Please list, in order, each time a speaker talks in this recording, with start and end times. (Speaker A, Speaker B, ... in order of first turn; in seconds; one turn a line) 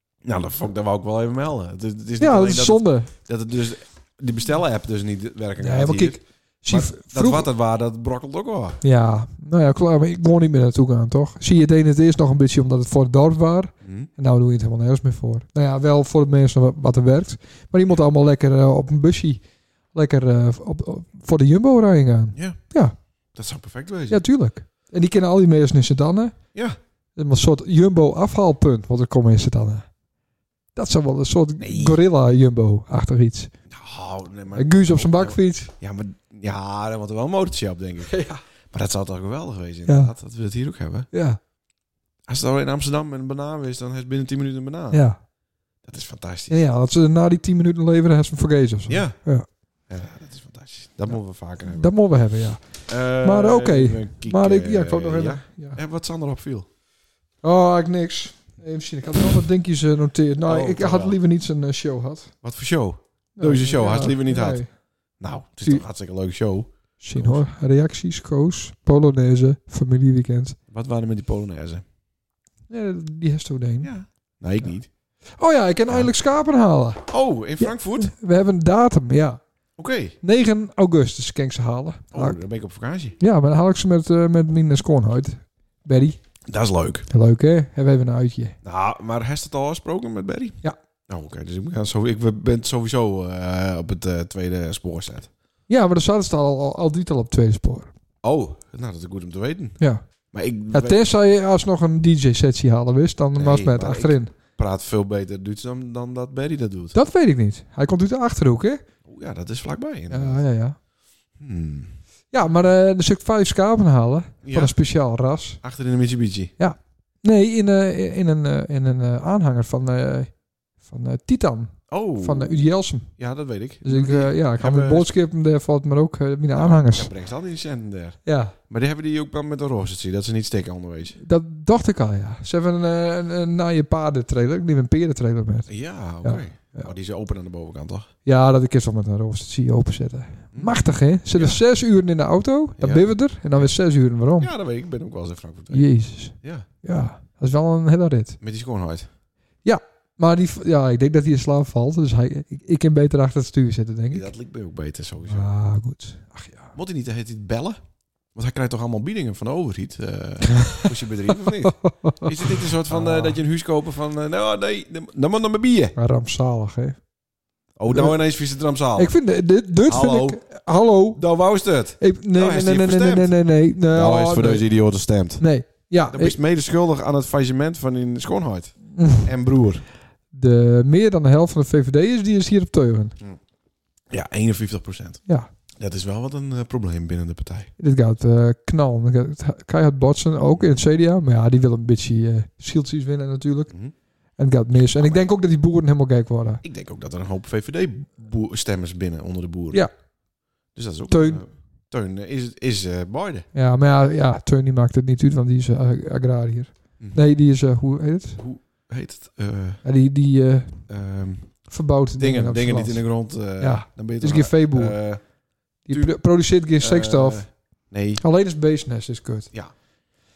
Speaker A: 0.2-8.8
Speaker B: 2.2-3.1
Speaker B: 5.6-7.5
Speaker B: 8.8-22.9
Speaker A: 13.8-14.1
Speaker A: 22.3-22.6
Speaker A: 23.3-24.2
Speaker B: 24.1-26.4
Speaker B: 27.1-29.9
Speaker B: 30.7-33.5
Speaker A: 31.6-32.0
Speaker A: 33.7-41.1
Speaker B: 34.5-35.7
Speaker B: 38.1-38.4
Speaker B: 39.9-40.1
Speaker B: 41.1-41.4
Speaker A: 42.3-45.1
Speaker B: 44.9-45.2
Speaker A: 45.8-46.6
Speaker B: 46.5-49.5
Speaker A: 48.9-49.3
Speaker A: 49.9-51.9
Speaker B: 51.1-55.8
Speaker A: 52.9-56.7
Speaker B: 57.4-62.3
Speaker A: 60.4-61.2
Speaker A: 62.4-64.6
Speaker B: 63.4-64.7
Speaker A: 65.2-67.5
Speaker B: 67.0-70.6
Speaker A: 70.7-71.8
Speaker B: 72.7-73.9
Speaker A: 73.8-74.9
Speaker B: 75.4-77.1
Speaker A: 77.1-78.1
Speaker B: 77.6-79.4
Speaker A: 79.8-80.2
Speaker B: 80.2-82.4
Speaker A: 82.1-83.2
Speaker B: 83.2-86.2
Speaker A: 86.5-87.1
Speaker B: 87.1-88.6
Speaker A: 88.6-95.3
Speaker B: 95.7-97.9
Speaker A: 98.2-101.0
Speaker B: 100.7-104.3
Speaker A: 103.3-107.0
Speaker B: 106.9-108.8
Speaker A: 109.0-110.4
Speaker B: 110.1-110.8
Speaker A: 111.4-111.9
Speaker B: 112.3-115.6
Speaker A: 114.4-114.7
Speaker A: 115.6-116.5
Speaker B: 116.6-123.2
Speaker A: 121.9-125.1
Speaker B: 123.8-127.1
Speaker A: 126.5-131.2
Speaker B: 128.3-128.6
Speaker B: 131.2-135.7
Speaker A: 135.7-138.1
Speaker B: 136.2-136.9
Speaker B: 138.2-144.5
Speaker A: 140.5-141.6
Speaker A: 142.8-143.7
Speaker A: 144.4-146.7
Speaker B: 145.7-148.4
Speaker A: 148.4-149.1
Speaker B: 149.6-154.3
Speaker A: 154.1-155.5
Speaker B: 155.2-156.7
Speaker A: 156.7-157.8
Speaker A: 158.3-165.9
Speaker B: 160.6-163.4
Speaker B: 165.9-167.0
Speaker A: 167.8-169.2
Speaker B: 167.9-168.2
Speaker B: 168.9-171.2
Speaker A: 169.9-170.4
Speaker A: 171.1-175.4
Speaker B: 172.0-174.7
Speaker B: 175.4-176.4
Speaker A: 176.0-179.8
Speaker B: 178.9-179.3
Speaker B: 180.3-183.1
Speaker A: 184.1-185.2
Speaker A: 185.8-187.7
Speaker B: 187.8-193.7
Speaker B: 194.4-196.6
Speaker A: 194.9-195.3
Speaker A: 196.6-199.9
Speaker A: 200.7-203.4
Speaker B: 201.1-201.4
Speaker B: 203.5-208.4
Speaker A: 208.4-209.8
Speaker B: 209.8-210.8
Speaker A: 210.9-215.3
Speaker B: 211.7-215.0
Speaker B: 215.8-217.6
Speaker A: 215.9-218.2
Speaker B: 218.2-219.5